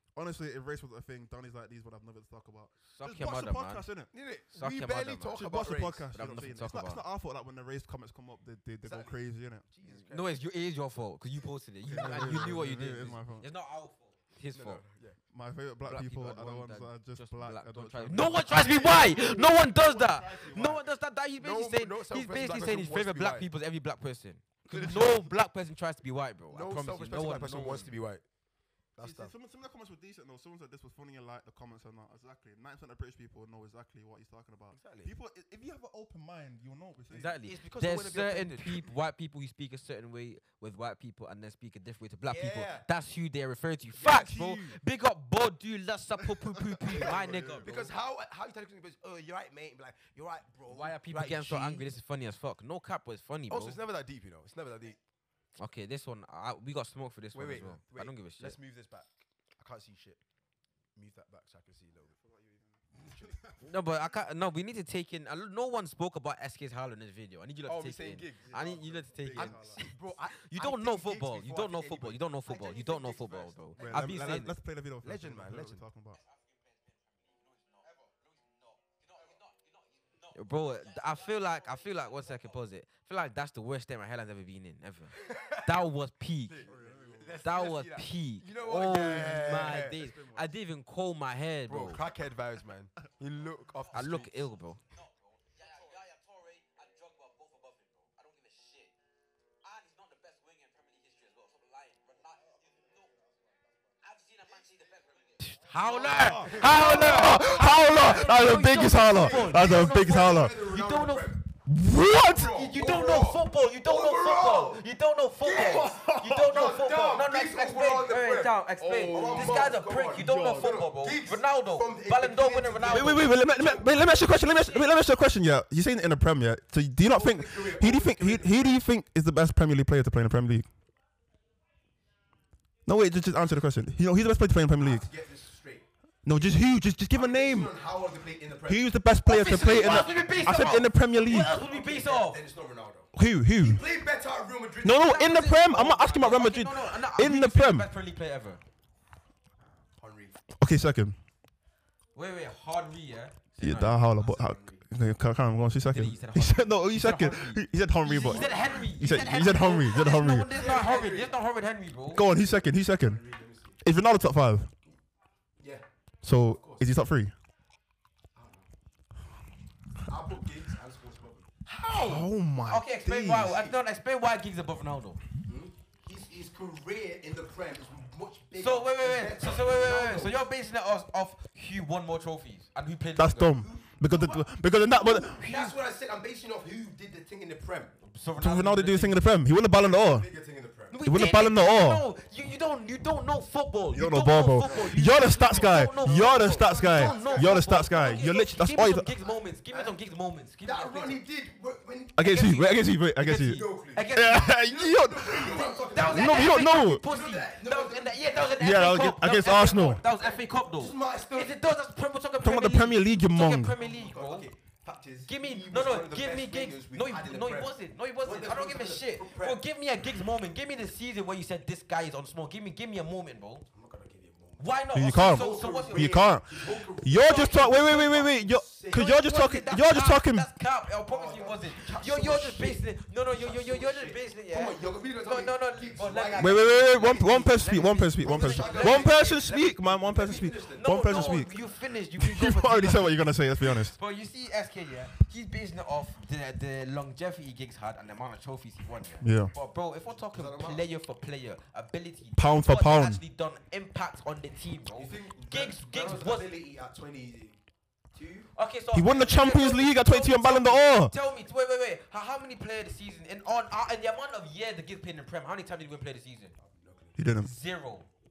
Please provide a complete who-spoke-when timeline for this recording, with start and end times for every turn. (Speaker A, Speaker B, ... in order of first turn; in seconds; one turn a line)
Speaker A: 0.1-4.1
Speaker B: 2.9-3.9
Speaker C: 4.1-6.1
Speaker B: 4.5-5.4
Speaker A: 5.3-9.6
Speaker B: 6.1-7.0
Speaker C: 8.8-10.4
Speaker B: 9.9-14.8
Speaker C: 11.8-12.6
Speaker A: 11.9-13.5
Speaker C: 14.5-15.2
Speaker A: 15.3-20.8
Speaker B: 15.8-27.9
Speaker C: 18.4-19.5
Speaker C: 21.4-23.5
Speaker C: 24.7-25.3
Speaker C: 26.5-28.2
Speaker C: 28.9-29.3
Speaker A: 29.0-37.4
Speaker C: 34.7-35.1
Speaker B: 37.1-47.8
Speaker C: 37.4-38.9
Speaker C: 42.3-42.9
Speaker C: 44.0-44.4
Speaker A: 44.0-44.7
Speaker A: 46.2-47.9
Speaker C: 46.9-51.8
Speaker B: 50.7-53.8
Speaker C: 53.5-55.0
Speaker B: 55.6-58.6
Speaker C: 57.3-60.2
Speaker C: 60.9-62.1
Speaker A: 62.1-63.5
Speaker C: 62.9-63.4
Speaker B: 63.6-74.5
Speaker C: 67.7-68.8
Speaker A: 68.5-69.8
Speaker C: 69.3-74.2
Speaker A: 73.8-76.2
Speaker C: 75.0-75.8
Speaker B: 80.3-86.6
Speaker C: 85.1-85.7
Speaker C: 86.5-90.5
Speaker A: 86.6-87.4
Speaker B: 87.4-92.0
Speaker A: 88.9-89.8
Speaker C: 91.7-94.5
Speaker B: 93.9-94.8
Speaker B: 97.6-98.9
Speaker B: 99.7-102.4
Speaker B: 105.4-111.3
Speaker A: 105.8-110.5
Speaker C: 106.2-111.4
Speaker A: 111.6-112.6
Speaker C: 112.2-114.8
Speaker B: 112.5-123.3
Speaker C: 115.4-124.0
Speaker A: 115.5-116.6
Speaker A: 118.8-120.8
Speaker A: 122.9-130.7
Speaker B: 124.0-124.9
Speaker C: 127.1-128.7
Speaker A: 132.8-135.1
Speaker C: 134.8-136.4
Speaker A: 136.2-137.7
Speaker C: 137.1-138.8
Speaker A: 138.7-141.6
Speaker B: 139.2-142.4
Speaker C: 139.5-140.2
Speaker C: 141.3-145.2
Speaker A: 143.1-143.8
Speaker A: 144.8-147.9
Speaker B: 144.9-148.6
Speaker C: 150.0-150.4
Speaker A: 150.6-151.1
Speaker B: 152.1-154.1
Speaker A: 153.6-160.5
Speaker C: 154.2-154.8
Speaker B: 155.9-162.2
Speaker C: 158.2-158.9
Speaker C: 160.5-161.3
Speaker A: 162.1-163.2
Speaker C: 162.9-163.8
Speaker A: 163.8-164.7
Speaker A: 166.2-167.3
Speaker C: 166.5-166.9
Speaker C: 168.3-168.7
Speaker C: 170.1-172.2
Speaker B: 171.8-175.2
Speaker A: 171.9-173.6
Speaker C: 173.4-173.7
Speaker C: 175.4-180.4
Speaker B: 178.6-183.6
Speaker A: 183.2-185.4
Speaker C: 183.5-187.9
Speaker B: 185.1-185.8
Speaker B: 188.0-189.2
Speaker A: 188.4-190.3
Speaker C: 189.8-191.0
Speaker B: 190.9-201.2
Speaker A: 191.0-192.0
Speaker A: 193.9-199.1
Speaker C: 194.6-198.2
Speaker C: 199.7-199.9
Speaker C: 200.6-202.5
Speaker A: 202.2-207.0
Speaker B: 202.2-204.6
Speaker C: 203.2-208.5
Speaker B: 205.3-214.5
Speaker A: 208.6-210.0
Speaker C: 209.7-211.6
Speaker A: 212.4-213.7
Speaker C: 213.8-219.6
Speaker B: 215.2-223.6
Speaker C: 223.7-229.4
Speaker B: 224.6-226.2
Speaker A: 224.9-230.5
Speaker B: 227.1-228.3
Speaker B: 228.9-239.4
Speaker C: 231.1-241.5
Speaker A: 236.3-241.5
Speaker B: 240.7-256.5
Speaker A: 242.2-243.9
Speaker A: 249.2-249.5
Speaker C: 250.1-250.8
Speaker A: 252.4-253.2
Speaker C: 254.9-257.6
Speaker C: 258.1-258.5
Speaker B: 258.5-266.5
Speaker A: 258.9-261.1
Speaker C: 266.6-267.2
Speaker A: 267.2-267.5
Speaker B: 267.4-268.1